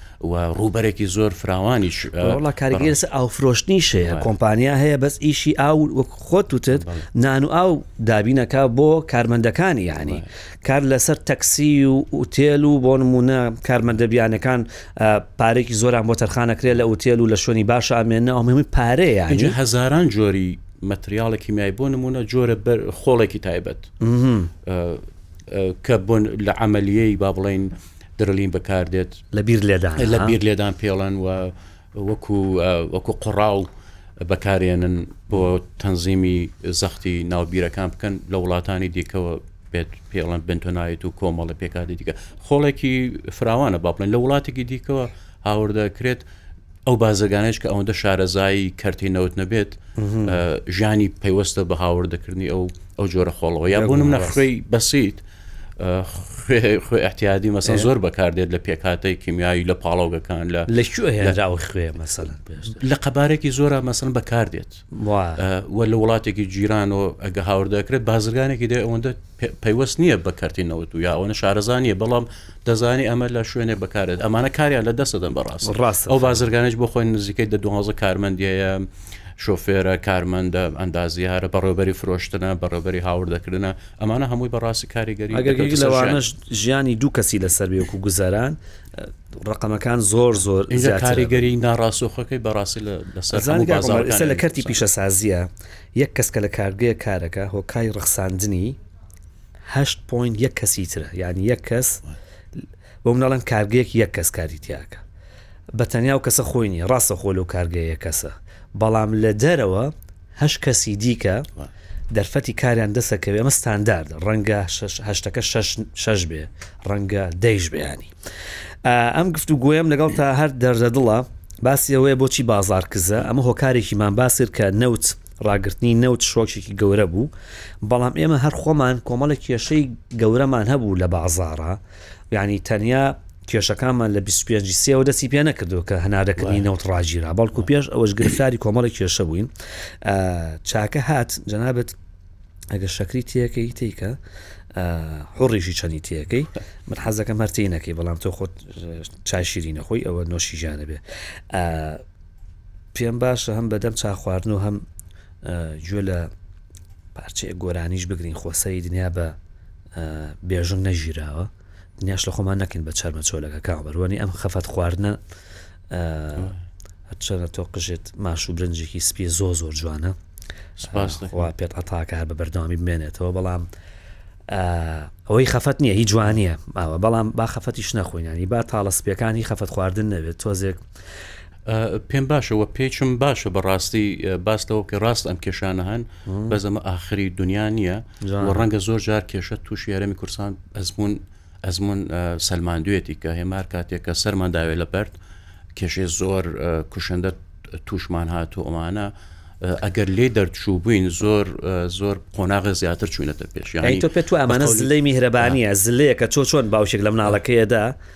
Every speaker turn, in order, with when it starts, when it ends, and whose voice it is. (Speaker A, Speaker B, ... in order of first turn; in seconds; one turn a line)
Speaker A: 0.2-3.0
Speaker B: 2.2-19.6
Speaker A: 4.0-4.3
Speaker A: 6.7-7.1
Speaker A: 19.3-23.9
Speaker B: 24.0-24.5
Speaker A: 24.6-29.2
Speaker B: 29.3-30.4
Speaker A: 30.0-33.7
Speaker A: 34.2-46.2
Speaker A: 46.9-55.2
Speaker B: 50.0-50.4
Speaker B: 53.7-54.4
Speaker A: 55.8-61.4
Speaker B: 60.7-62.8
Speaker A: 62.7-64.8
Speaker B: 64.9-65.5
Speaker A: 65.4-86.2
Speaker B: 75.6-76.4
Speaker B: 85.3-91.5
Speaker A: 90.7-94.8
Speaker B: 93.3-98.8
Speaker B: 99.7-102.0
Speaker B: 103.0-105.0
Speaker B: 105.7-111.5
Speaker B: 112.1-118.1
Speaker B: 118.8-127.3
Speaker B: 127.8-131.8
Speaker B: 132.3-142.0
Speaker B: 142.7-144.2
Speaker B: 144.7-152.0
Speaker B: 152.9-154.8
Speaker B: 155.4-156.3
Speaker B: 157.2-159.4
Speaker B: 159.9-161.5
Speaker B: 162.0-165.2
Speaker B: 165.9-166.6
Speaker B: 167.1-170.2
Speaker A: 170.8-171.5
Speaker B: 170.9-173.7
Speaker B: 174.5-180.8
Speaker A: 181.7-195.2
Speaker B: 186.3-186.6
Speaker B: 188.2-188.7
Speaker A: 195.8-205.6
Speaker B: 203.8-208.0